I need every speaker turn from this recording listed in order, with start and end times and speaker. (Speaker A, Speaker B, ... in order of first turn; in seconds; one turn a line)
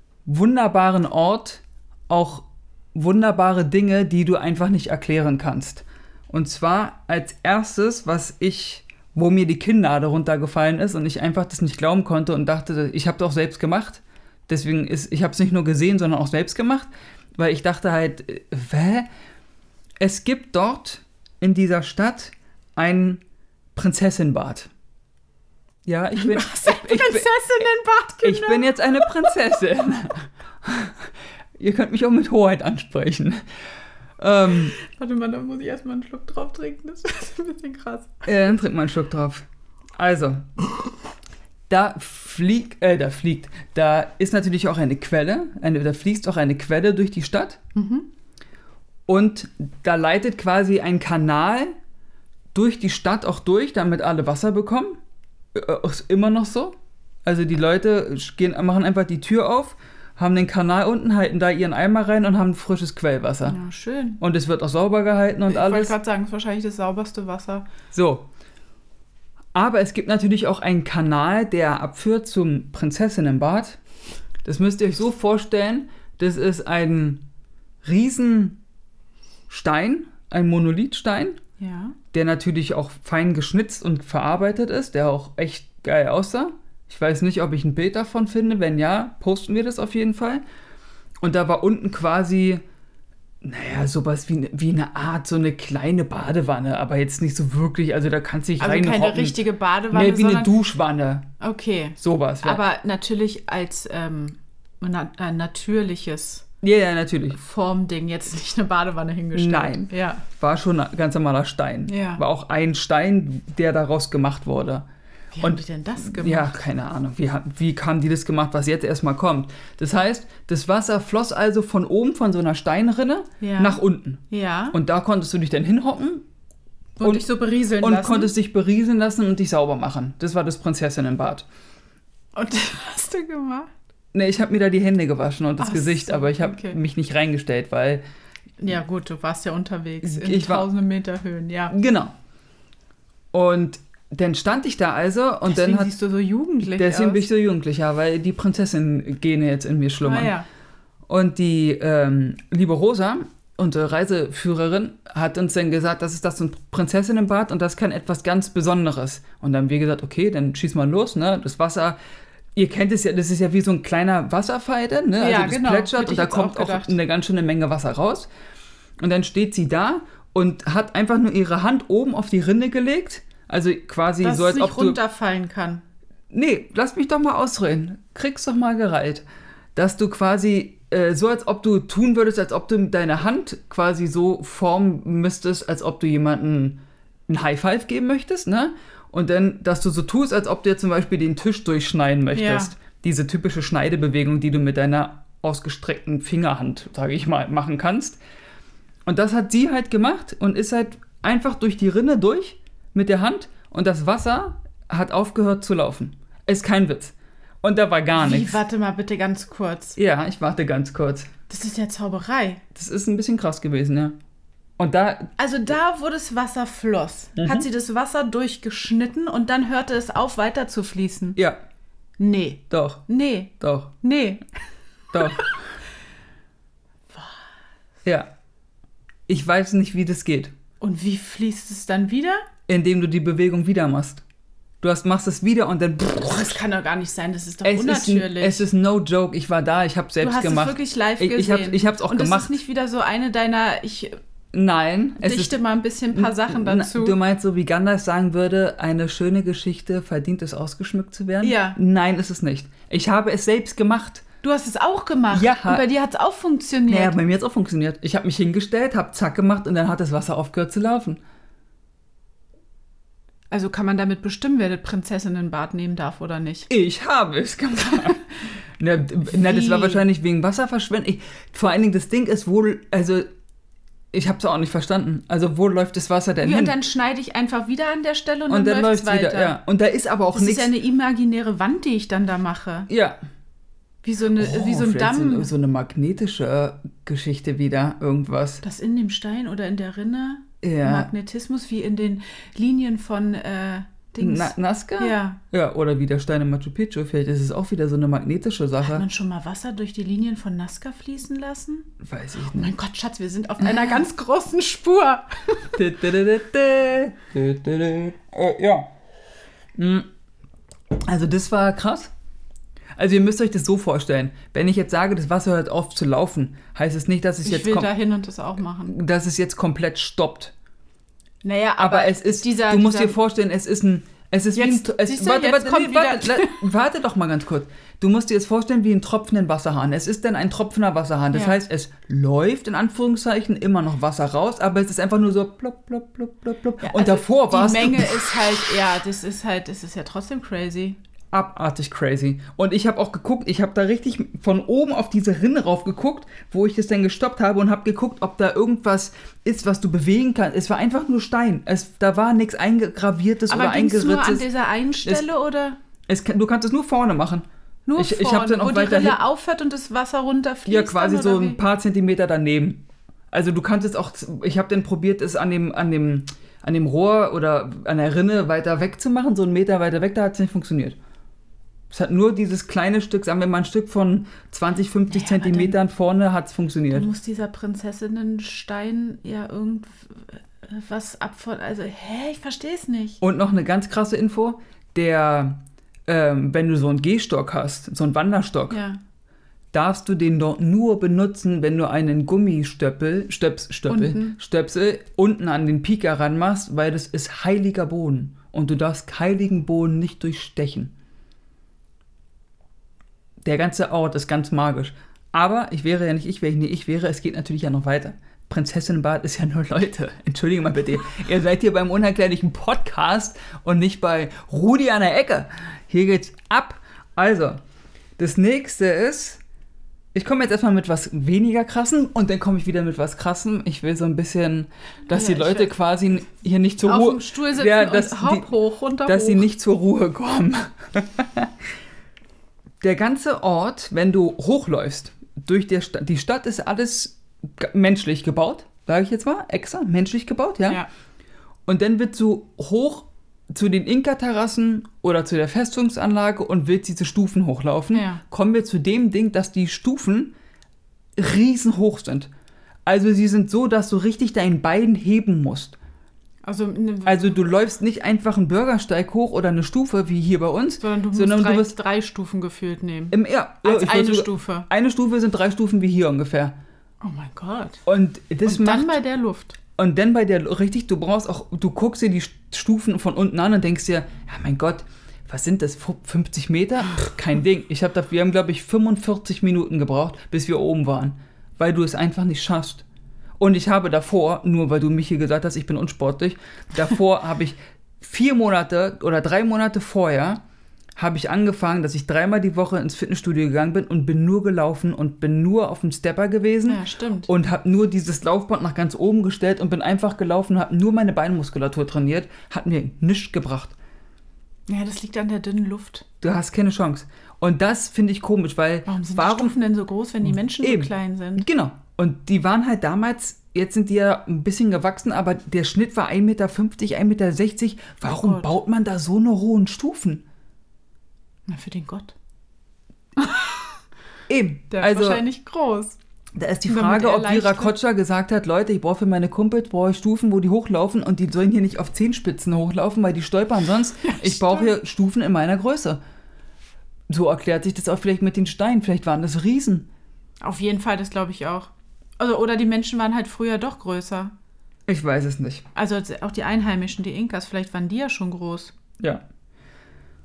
Speaker A: 0.3-19.1
Speaker A: 20.0-23.2
Speaker A: 23.8-24.7
Speaker A: 25.9-27.4
Speaker B: 26.2-29.3
Speaker A: 28.2-33.4
Speaker A: 34.2-34.7
Speaker B: 34.5-38.2
Speaker A: 38.3-40.5
Speaker A: 41.7-47.6
Speaker B: 47.8-48.1
Speaker A: 49.1-51.7
Speaker A: 52.5-55.0
Speaker A: 55.5-63.6
Speaker B: 63.5-64.2
Speaker A: 64.2-66.0
Speaker B: 65.5-67.7
Speaker A: 67.9-68.3
Speaker A: 69.5-73.8
Speaker A: 74.4-77.2
Speaker A: 77.8-78.6
Speaker A: 79.5-81.4
Speaker B: 81.6-82.0
Speaker A: 82.1-90.4
Speaker A: 91.2-92.6
Speaker A: 93.4-99.4
Speaker B: 98.6-100.6
Speaker A: 99.9-101.3
Speaker B: 101.4-106.5
Speaker A: 102.0-102.6
Speaker A: 106.6-107.4
Speaker B: 107.3-110.2
Speaker A: 109.3-114.9
Speaker B: 111.9-112.2
Speaker B: 115.3-116.5
Speaker A: 115.4-126.3
Speaker B: 123.4-124.8
Speaker B: 127.0-128.3
Speaker A: 127.0-131.5
Speaker B: 132.3-133.7
Speaker A: 134.1-138.0
Speaker B: 135.6-136.8
Speaker B: 138.6-141.8
Speaker A: 140.0-140.7
Speaker A: 141.7-142.1
Speaker A: 143.3-146.0
Speaker B: 145.5-147.2
Speaker A: 146.7-150.3
Speaker B: 150.0-150.5
Speaker A: 151.1-162.0
Speaker A: 162.6-168.3
Speaker B: 165.2-167.0
Speaker A: 169.0-175.0
Speaker B: 174.2-175.8
Speaker A: 176.3-198.2
Speaker B: 192.3-192.8
Speaker A: 199.1-208.6
Speaker B: 208.2-210.0
Speaker A: 210.0-211.3
Speaker B: 211.5-212.6
Speaker A: 212.7-214.2
Speaker A: 214.8-215.3
Speaker B: 215.4-221.4
Speaker A: 217.4-217.7
Speaker B: 222.2-224.5
Speaker A: 222.7-223.0
Speaker A: 223.6-223.9
Speaker A: 225.1-225.6
Speaker B: 225.2-225.5
Speaker A: 228.0-228.3
Speaker A: 229.3-230.5
Speaker B: 230.8-232.5
Speaker A: 232.7-234.2
Speaker A: 234.8-236.6
Speaker B: 236.3-238.7
Speaker A: 237.6-242.6
Speaker B: 240.2-244.2
Speaker A: 244.5-245.6
Speaker B: 245.2-247.2
Speaker A: 246.1-254.2
Speaker B: 251.4-251.8
Speaker B: 254.4-257.2
Speaker A: 255.3-255.9
Speaker A: 256.9-261.2
Speaker B: 263.5-266.7
Speaker A: 266.7-268.2
Speaker A: 268.8-273.3
Speaker B: 269.3-270.1
Speaker A: 274.1-276.8
Speaker B: 276.4-279.6
Speaker A: 278.5-280.7
Speaker B: 280.3-282.9
Speaker A: 282.9-283.2
Speaker B: 284.0-285.5
Speaker A: 284.4-288.6
Speaker B: 288.6-295.4
Speaker A: 290.6-291.1
Speaker A: 294.2-299.1
Speaker B: 298.8-301.9
Speaker A: 302.0-302.7
Speaker B: 302.5-305.7
Speaker A: 305.8-308.9
Speaker A: 309.8-310.1
Speaker A: 311.0-312.1
Speaker A: 313.0-317.9
Speaker B: 317.4-319.0
Speaker A: 318.9-320.5
Speaker B: 321.4-323.2
Speaker A: 321.8-338.6
Speaker B: 324.6-326.6
Speaker B: 331.3-331.6
Speaker B: 336.8-341.0
Speaker A: 341.3-354.5
Speaker B: 353.5-355.8
Speaker A: 356.1-359.2
Speaker B: 357.9-361.6
Speaker A: 360.7-371.0
Speaker A: 371.9-377.1
Speaker B: 375.1-375.8
Speaker B: 376.9-383.2
Speaker A: 383.2-388.8
Speaker B: 388.7-389.0
Speaker A: 389.7-400.9
Speaker B: 393.9-394.4
Speaker A: 403.4-417.6
Speaker A: 418.2-419.4
Speaker A: 420.1-428.5
Speaker B: 425.1-425.7
Speaker B: 426.8-429.5
Speaker A: 429.0-431.5
Speaker A: 432.8-440.8
Speaker A: 441.7-450.4
Speaker B: 447.9-448.2
Speaker A: 451.2-452.3
Speaker A: 452.9-455.8
Speaker B: 456.4-457.6
Speaker A: 457.1-461.8
Speaker B: 460.8-464.7
Speaker A: 463.1-466.6
Speaker B: 467.0-467.8
Speaker A: 467.9-469.0
Speaker B: 468.4-469.6
Speaker A: 469.8-482.9
Speaker A: 483.4-490.4
Speaker A: 491.0-503.8
Speaker B: 496.7-497.3
Speaker B: 504.7-506.1
Speaker A: 506.2-509.6
Speaker B: 508.9-511.5
Speaker A: 510.2-520.2
Speaker B: 518.0-518.5
Speaker B: 521.5-522.1
Speaker B: 523.2-523.7
Speaker A: 524.3-525.2
Speaker B: 524.7-526.0
Speaker A: 526.4-536.0
Speaker B: 526.7-527.7
Speaker B: 534.0-534.7
Speaker A: 537.1-539.9
Speaker B: 540.4-544.3
Speaker A: 544.9-545.7
Speaker B: 545.8-548.7